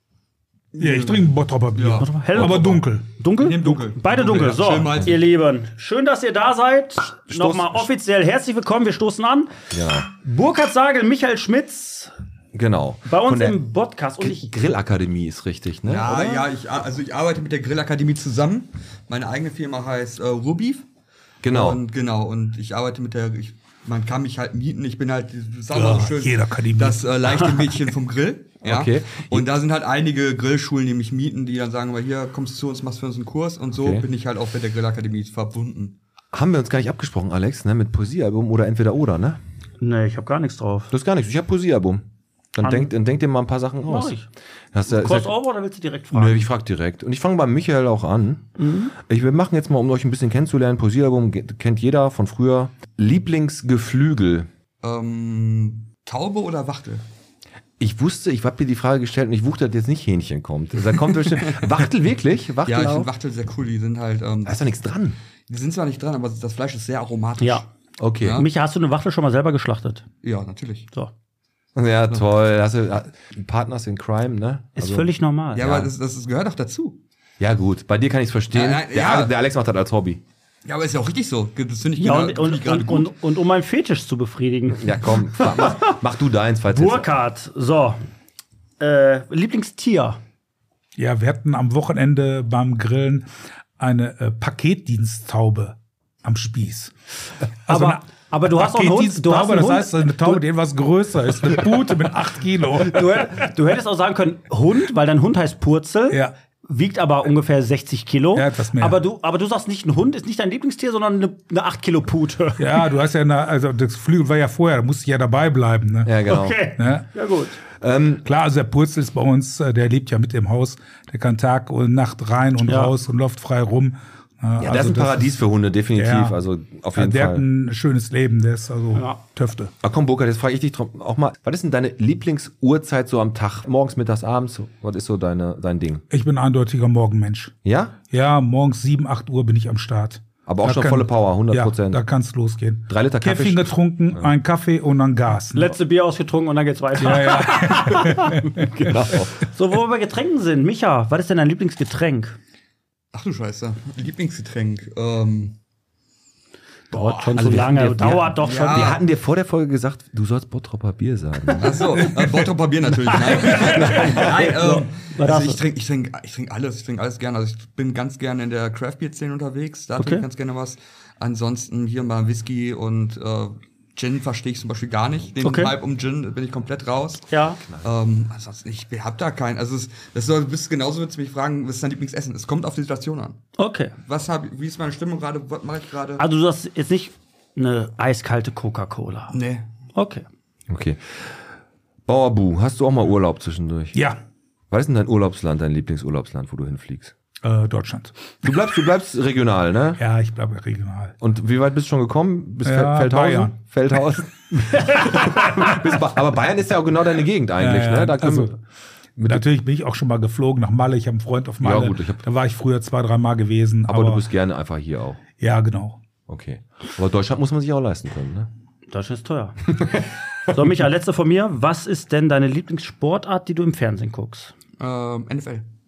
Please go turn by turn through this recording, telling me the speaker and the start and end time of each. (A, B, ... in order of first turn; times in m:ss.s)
0:00.7-0:02.8 A
0:00.8-0:03.1 B
0:02.0-0:09.5 C
0:03.4-0:05.2 A
0:07.3-0:07.9 D
0:09.7-0:10.1 D
0:10.1-0:12.1 C
0:12.5-0:13.6 D
0:13.1-0:14.6 C
0:14.2-0:16.5 D
0:15.9-0:20.9 A
0:21.4-0:21.8 D
0:21.5-0:36.0 A
0:25.7-0:27.6 B
0:28.6-0:29.5 D
0:33.7-0:34.1 D
0:36.3-0:39.4 D
0:39.8-0:40.9 C
0:40.9-0:44.2 D
0:42.6-0:42.9 C
0:43.9-0:44.3 C
0:44.7-0:45.4 D
0:44.9-0:46.5 C
0:46.1-0:54.5 D
0:48.6-0:48.9 C
0:54.8-0:57.0 A
0:57.8-1:03.1 D
1:01.4-1:01.7 A
1:02.6-1:04.7 A
1:04.4-1:05.2 D
1:05.5-1:07.7 A
1:08.0-1:08.4 D
1:08.2-1:08.5 A
1:08.3-1:10.1 C
1:10.2-1:10.9 A
1:11.8-1:15.9 D
1:14.8-1:15.7 C
1:15.5-1:17.0 A
1:17.4-1:20.2 D
1:18.5-1:19.3 A
1:20.6-1:23.1 A
1:22.0-1:26.0 C
1:24.7-1:27.1 D
1:26.7-1:28.0 C
1:28.8-1:30.2 C
1:31.0-1:33.3 B
1:33.8-1:36.9 B
1:37.7-1:43.5 B
1:37.7-1:40.4 C
1:42.8-1:52.8 C
1:48.4-1:49.0 B
1:52.6-1:56.2 B
1:56.0-1:56.6 D
1:56.3-1:57.6 C
1:56.8-1:57.1 B
1:57.8-1:58.2 D
1:58.2-2:05.3 B
2:02.6-2:02.9 C
2:04.6-2:07.4 D
2:06.0-2:06.4 B
2:06.9-2:09.7 B
2:09.0-2:09.2 C
2:09.8-2:16.0 D
2:16.1-2:17.5 B
2:17.6-2:18.0 D
2:18.1-2:25.8 B
2:20.5-2:22.0 D
2:22.9-2:24.3 D
2:25.5-2:28.3 C
2:27.0-2:28.9 B
2:28.5-2:29.4 D
2:29.5-2:32.4 C
2:33.1-2:35.6 A
2:36.9-2:38.9 C
2:37.2-2:42.2 D
2:37.4-2:37.7 A
2:38.3-2:39.0 A
2:41.6-2:57.3 A
2:43.4-2:44.4 D
2:43.6-2:45.6 C
2:50.0-2:50.3 C
2:55.4-2:55.7 C
2:57.3-2:57.6 C
2:57.8-3:03.4 A
3:03.6-3:03.9 C
3:04.0-3:06.2 A
3:06.2-3:09.4 C
3:09.3-3:09.7 A
3:10.0-3:10.2 C
3:10.7-3:11.3 D
3:12.1-3:14.0 D
3:14.0-3:14.2 B
3:14.7-3:17.1 D
3:17.4-3:18.1 B
3:18.4-3:20.0 D
3:20.0-3:21.2 B
3:21.2-3:28.6 D
3:22.6-3:23.5 B
3:27.6-3:28.6 B
3:29.2-3:29.4 D
3:29.3-3:34.2 B
3:31.6-3:32.2 D
3:33.9-3:35.2 D
3:35.4-3:36.0 B
3:36.3-3:38.5 D
3:38.9-3:39.6 C
3:39.7-3:40.0 D
3:40.5-3:44.5 C
3:44.8-3:45.7 A